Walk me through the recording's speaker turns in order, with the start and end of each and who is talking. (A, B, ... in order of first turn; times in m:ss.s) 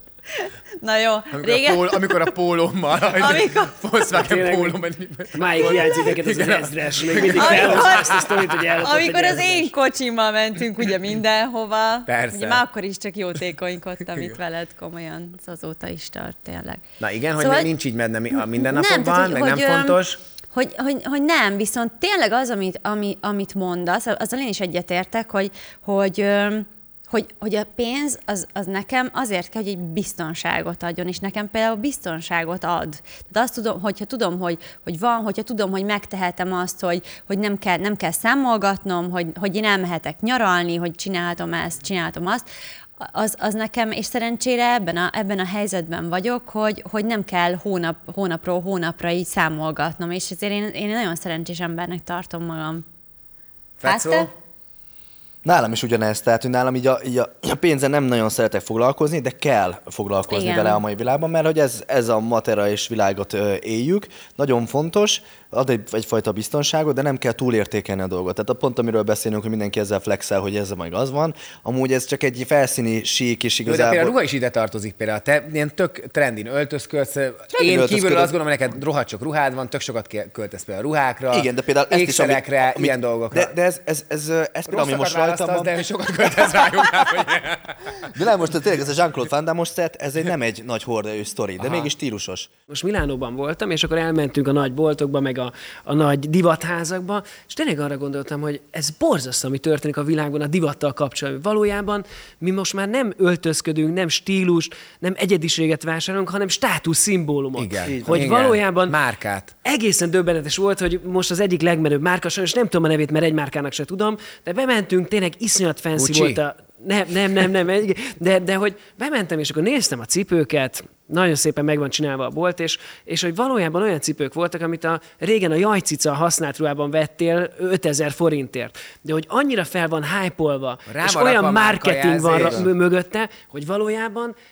0:00.4-0:02.3 A
0:01.3-0:08.7 B
0:03.2-0:03.8 A
0:04.1-0:04.8 C
0:05.4-0:09.7 C
0:07.3-0:16.8 A
0:12.1-0:12.6 B
0:17.0-0:20.2 B
0:17.4-0:17.7 A
0:18.4-0:20.0 A
0:20.5-0:42.5 A
0:43.0-0:52.8 A
0:53.8-0:54.3 B
0:53.8-0:54.3 A
0:55.4-1:14.2 D
1:00.3-1:00.8 A
1:13.7-1:23.5 B
1:17.5-1:18.3 D
1:21.3-1:25.7 D
1:24.7-1:27.8 B
1:28.1-1:32.5 D
1:31.6-1:31.9 B
1:32.7-1:49.0 C
1:47.6-1:49.5 B
1:47.8-1:48.4 D
1:49.6-2:14.4 C
1:56.0-1:56.4 B
2:10.9-2:12.7 B
2:12.4-2:12.6 D